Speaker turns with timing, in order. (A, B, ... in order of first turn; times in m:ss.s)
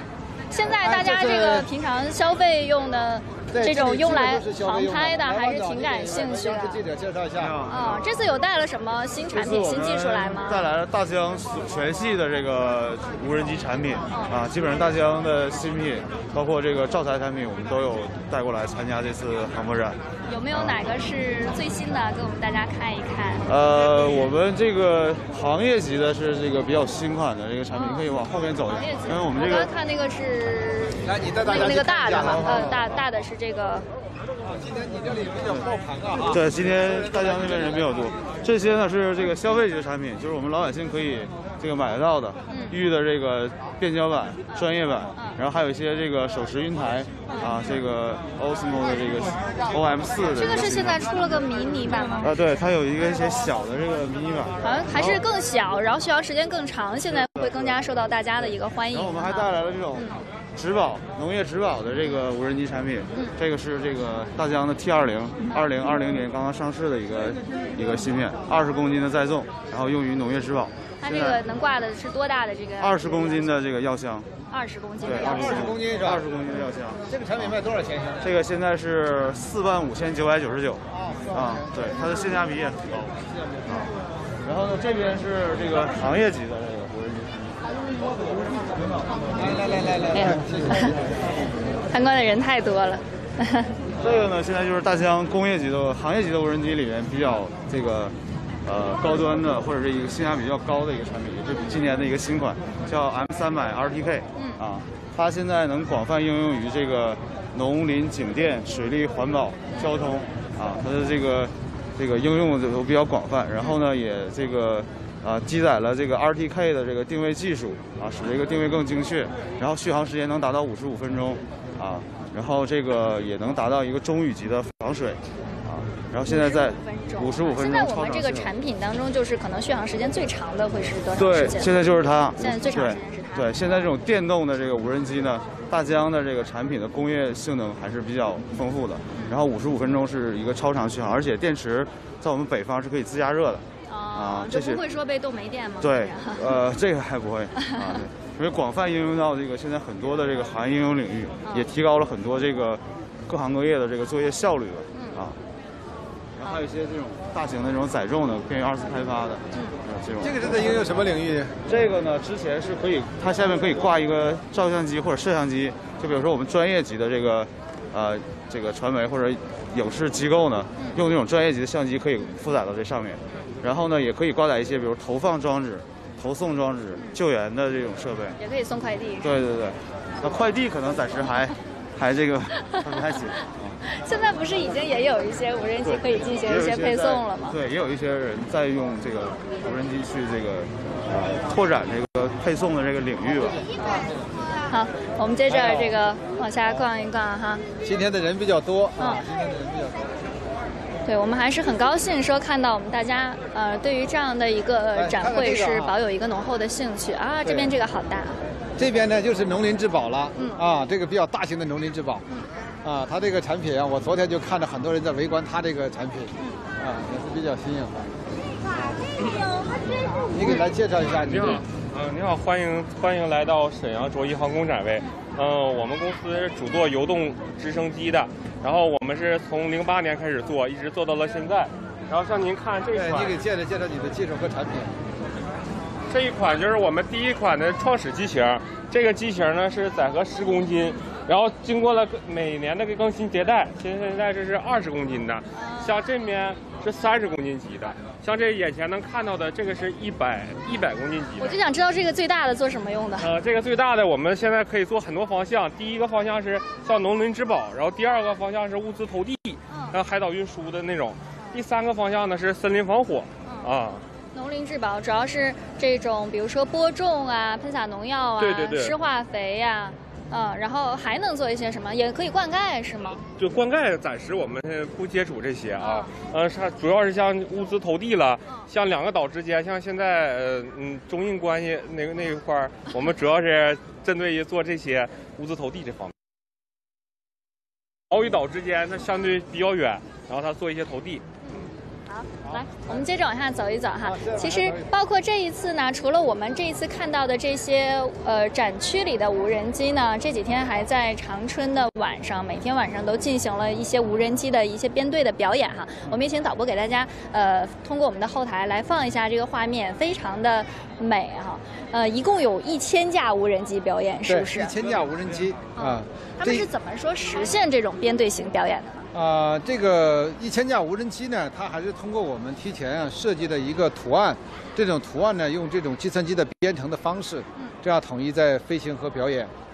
0:00.5-0:06.8 A
0:00.7-0:01.7 B
0:03.5-0:07.5 B
0:07.4-0:08.1 C
0:07.7-0:10.6 A
0:09.3-0:20.0 C
0:14.1-0:14.3 A
0:20.2-0:23.4 A
0:20.5-0:20.8 C
0:23.5-0:29.7 C
0:27.7-0:28.1 A
0:28.7-0:33.9 A
0:31.0-0:32.9 B
0:34.5-0:37.8 B
0:36.3-0:51.0 C
0:42.5-0:42.8 A
0:50.4-0:52.3 A
0:52.2-0:55.2 C
0:54.6-1:00.2 A
0:57.1-0:57.8 C
0:58.9-1:11.4 C
1:11.0-1:13.5 A
1:12.8-1:14.3 C
1:14.5-1:15.7 A
1:15.0-1:17.0 C
1:15.1-1:16.2 B
1:17.1-1:18.3 B
1:18.2-1:23.9 C
1:20.9-1:21.8 B
1:24.4-1:27.6 C
1:29.4-1:30.9 B
1:30.1-1:31.0 A
1:31.8-1:33.8 A
1:34.0-2:08.5 C
2:06.3-2:11.7 A
2:11.1-2:24.8 C
2:12.4-2:13.7 A
2:23.9-2:26.5 A
2:25.8-2:35.4 C
2:34.9-2:35.2 A
2:36.4-2:40.7 C
2:40.2-2:41.6 B
2:41.6-2:58.4 C
2:58.4-2:59.3 A
2:59.2-3:03.8 C
3:02.6-3:02.9 A
3:03.8-3:07.6 A
3:05.8-3:13.6 C
3:13.8-3:17.6 A
3:15.5-3:16.0 B
3:17.8-3:20.2 B
3:21.0-3:28.4 A
3:24.9-3:26.0 B
3:27.4-3:27.7 B
3:28.8-3:32.2 B
3:32.8-3:38.1 B
3:40.3-3:41.6 B
3:41.1-3:53.4 D
3:52.9-3:54.9 B
3:56.1-4:11.6 D
4:05.5-4:06.0 A
4:11.4-4:13.3 A
4:13.2-4:24.0 D
4:19.7-4:20.0 A
4:23.4-4:23.7 A
4:24.3-4:33.2 A
4:28.4-4:29.0 D
4:33.3-4:46.1 D
4:35.8-4:36.1 A
4:48.1-4:51.2 D
4:51.4-5:14.7 A
4:52.4-4:53.0 B
4:54.0-4:54.9 B
5:14.2-5:16.7 B
5:15.7-5:19.1 A
5:19.1-5:29.5 B